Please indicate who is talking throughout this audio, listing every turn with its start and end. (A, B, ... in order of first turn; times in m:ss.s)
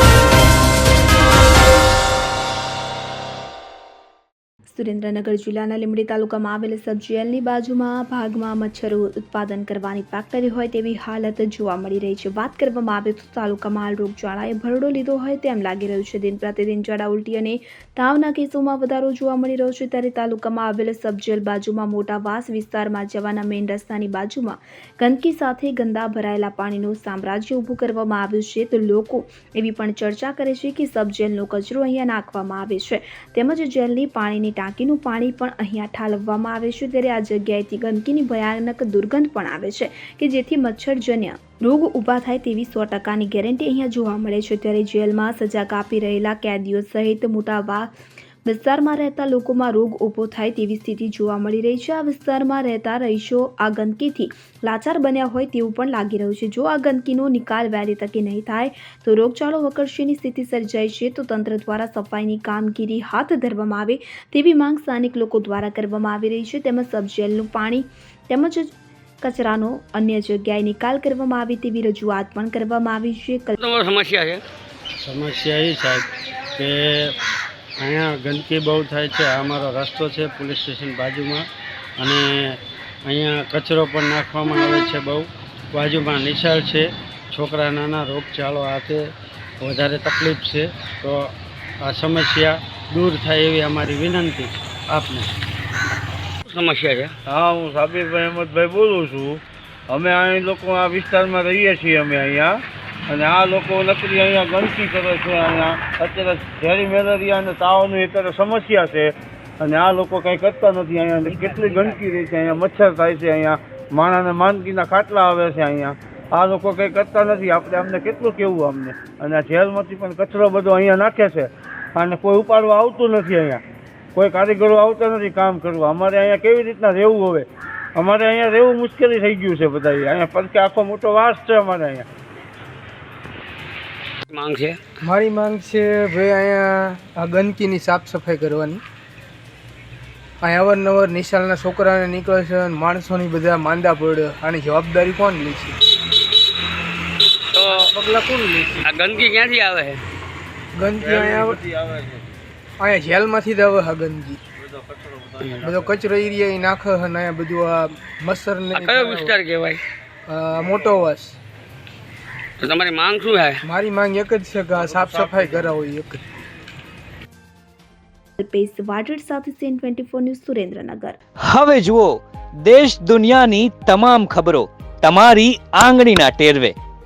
0:04.7-0:47.9 A
0:48.4-1:13.6 A
1:13.6-1:14.4 B
1:15.0-1:17.2 C
1:17.8-1:21.5 C
1:22.0-1:29.0 C
1:29.6-1:31.3 C
1:31.8-1:35.3 C
1:36.5-1:37.1 B
1:37.3-2:03.6 D
2:04.2-2:12.1 D
2:14.3-2:14.8 B
2:15.0-2:18.8 E
2:20.4-2:25.8 E
2:27.7-2:28.8 E
2:28.9-2:30.0 B
2:30.8-2:31.6 E
2:31.0-2:32.3 D
2:32.8-2:34.4 E
2:34.6-2:35.9 D
2:35.6-2:39.4 E
2:38.9-2:39.8 B
2:40.3-2:41.4 E
2:40.6-2:41.0 D
2:42.6-2:43.6 B
2:43.6-2:46.2 E
2:44.7-2:45.8 D
2:48.4-2:51.2 A
2:51.5-2:56.8 F